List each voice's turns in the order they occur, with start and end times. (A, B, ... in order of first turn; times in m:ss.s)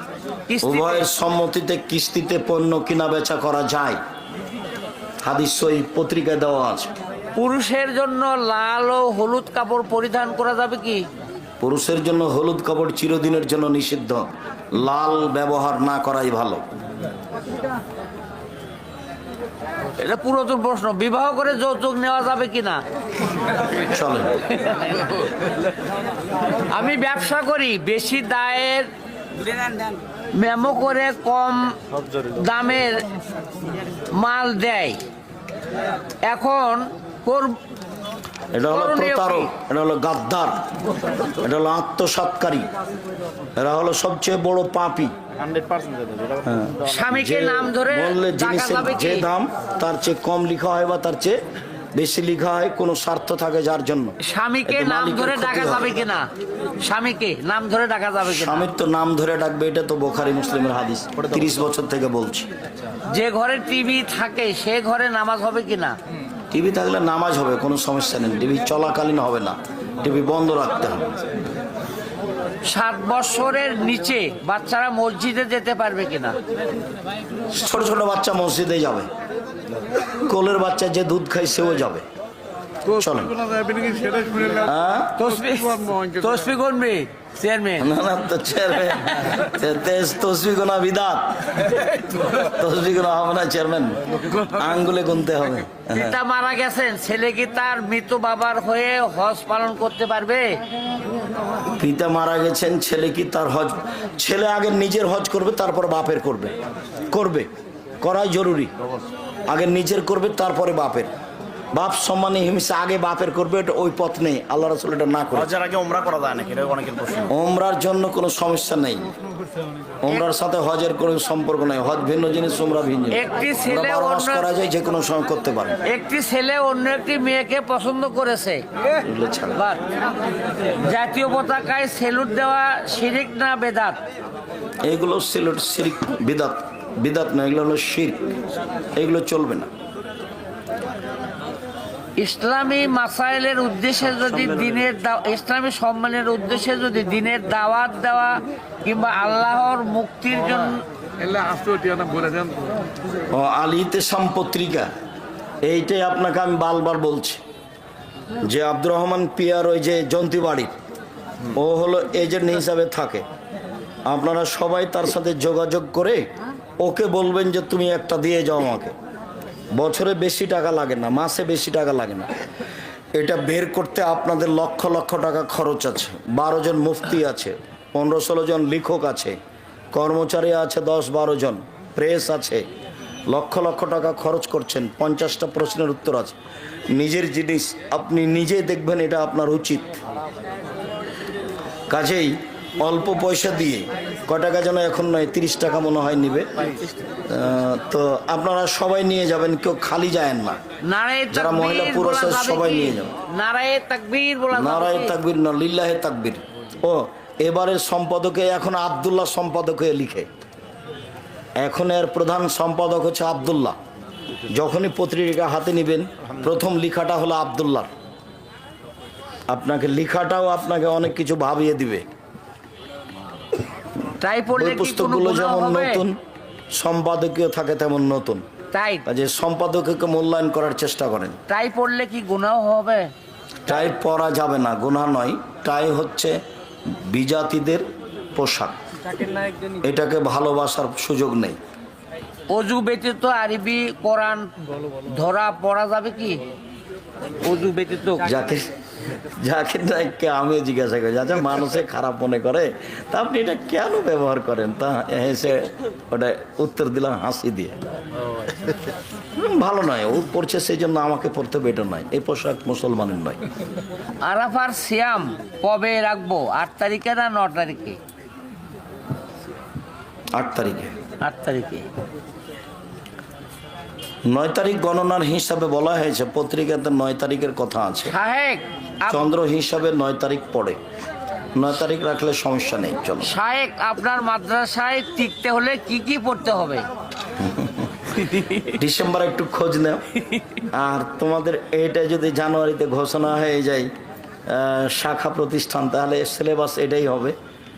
0:00.5-0:01.1 A
0:00.6-0:04.0 B
0:05.2-0:06.9 B
0:07.4-0:11.0 A
0:11.6-0:16.6 B
0:20.0-0:22.8 A
0:23.7-0:24.5 B
0:26.6-0:28.9 A
0:30.3-0:33.1 A
0:34.1-0:35.0 A
0:36.2-0:37.6 A
0:38.5-0:40.6 B
0:38.7-0:39.5 A
0:41.4-0:42.7 B
0:43.6-0:45.1 B
0:45.4-0:46.4 C
0:46.4-0:51.4 B
0:46.8-0:49.3 A
0:51.9-0:56.0 B
0:54.2-0:56.3 A
0:56.8-0:58.6 A
0:58.2-1:02.5 B
1:03.1-1:06.0 A
1:06.5-1:11.1 B
1:12.6-1:16.4 A
1:17.5-1:19.1 B
1:20.0-1:22.0 B
1:22.8-1:23.6 B
1:23.8-1:24.4 C
1:24.4-1:25.2 B
1:25.1-1:27.9 A
1:27.8-1:36.2 B
1:35.9-1:40.6 A
1:41.7-1:46.5 B
1:47.1-1:47.5 B
1:48.0-1:48.7 B
1:49.5-1:51.1 B
1:51.7-1:55.6 B
1:55.5-1:57.3 C
1:57.3-1:59.1 B
2:00.0-2:05.8 B
2:03.1-2:04.5 A
2:05.8-2:08.6 A
2:09.0-2:09.6 B
2:09.5-2:09.8 A
2:10.8-2:14.0 A
2:14.8-2:18.3 B
2:18.9-2:19.7 B
2:22.2-2:30.8 A
2:31.4-2:32.6 C
2:33.3-2:34.9 B
2:35.6-2:37.4 B
2:38.4-2:40.7 B
2:41.5-2:43.2 B
2:44.1-2:46.2 B
2:46.8-2:48.9 B
2:49.7-2:52.3 B
2:53.2-2:59.4 B
2:59.9-3:02.6 B
3:03.3-3:06.4 B
3:06.9-3:10.0 B
3:11.9-3:16.5 B
3:17.3-3:20.6 B
3:20.8-3:25.1 A
3:21.3-3:23.1 B
3:24.5-3:30.3 B
3:31.6-3:33.8 B
3:34.5-3:37.9 B
3:39.5-3:42.0 B
3:44.1-3:46.0 A
3:44.5-3:46.2 B
3:46.7-3:48.4 B
3:48.7-3:49.0 A
3:49.0-3:51.4 B
3:51.5-3:53.1 A
3:53.6-3:56.4 B
3:57.0-3:57.8 B
3:58.4-3:58.8 B
3:59.7-4:01.6 B
4:02.5-4:06.4 A
4:07.4-4:08.3 A
4:08.2-4:17.8 B
4:19.4-4:23.4 B
4:24.2-4:28.0 A
4:30.3-4:30.9 B
4:31.2-4:31.9 A
4:34.2-4:38.1 B
4:38.0-4:39.2 A
4:39.1-4:40.8 B
4:41.5-4:43.3 B
4:43.2-4:46.8 A
4:47.4-4:50.0 B
4:50.7-4:53.9 B
4:54.5-4:57.4 B